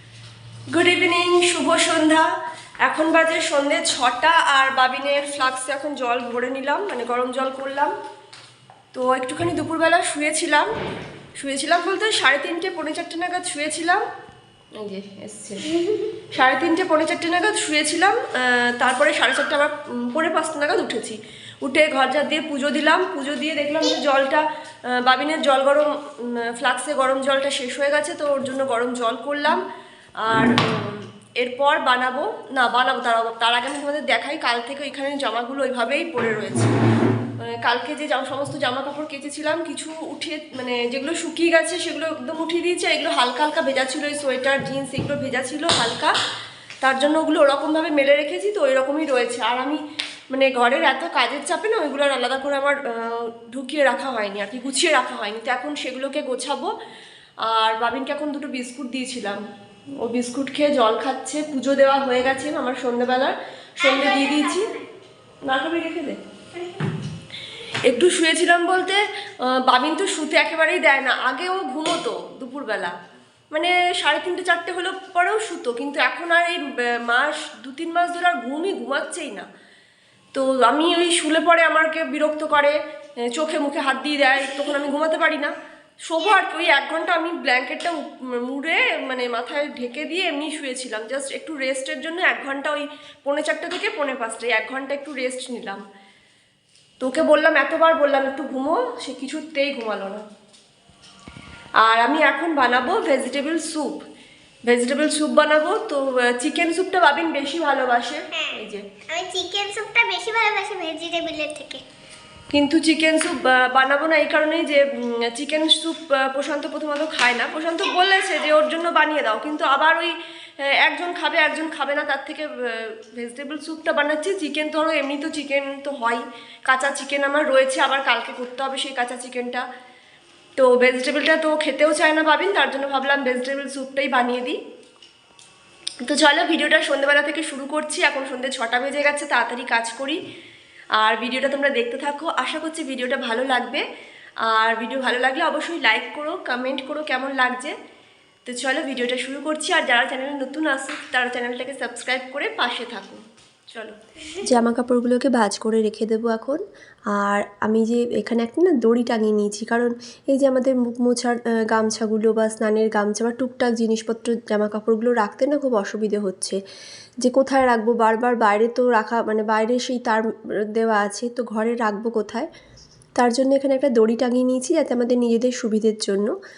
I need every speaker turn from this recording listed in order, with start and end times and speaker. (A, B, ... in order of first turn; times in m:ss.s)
0:00.7-0:07.9 A
0:08.9-0:10.7 A
0:11.4-0:14.0 A
0:14.8-0:29.6 A
0:30.2-0:36.8 A
0:37.4-0:46.2 A
0:46.8-0:56.7 A
0:57.4-0:59.4 A
1:00.0-1:04.8 A
1:04.0-1:04.6 B
1:05.4-1:06.6 A
1:07.9-1:13.0 A
1:13.5-1:19.5 A
1:20.3-1:22.8 A
1:23.3-1:25.5 A
1:26.0-1:35.8 A
1:37.0-1:40.2 A
1:41.8-1:44.0 A
1:44.7-1:48.9 A
1:49.1-1:51.8 B
1:52.5-2:09.6 A
2:10.6-2:14.6 A
2:16.0-2:20.2 A
2:21.0-2:23.8 A
2:24.4-2:27.8 A
2:28.5-2:33.2 A
2:33.7-2:34.6 A
2:34.5-2:36.6 C
2:37.1-2:44.9 C
2:43.7-2:46.6 A
2:47.2-2:49.9 A
2:49.8-2:50.2 C
2:50.8-2:52.4 C
2:51.0-2:51.4 A
2:53.4-2:56.3 C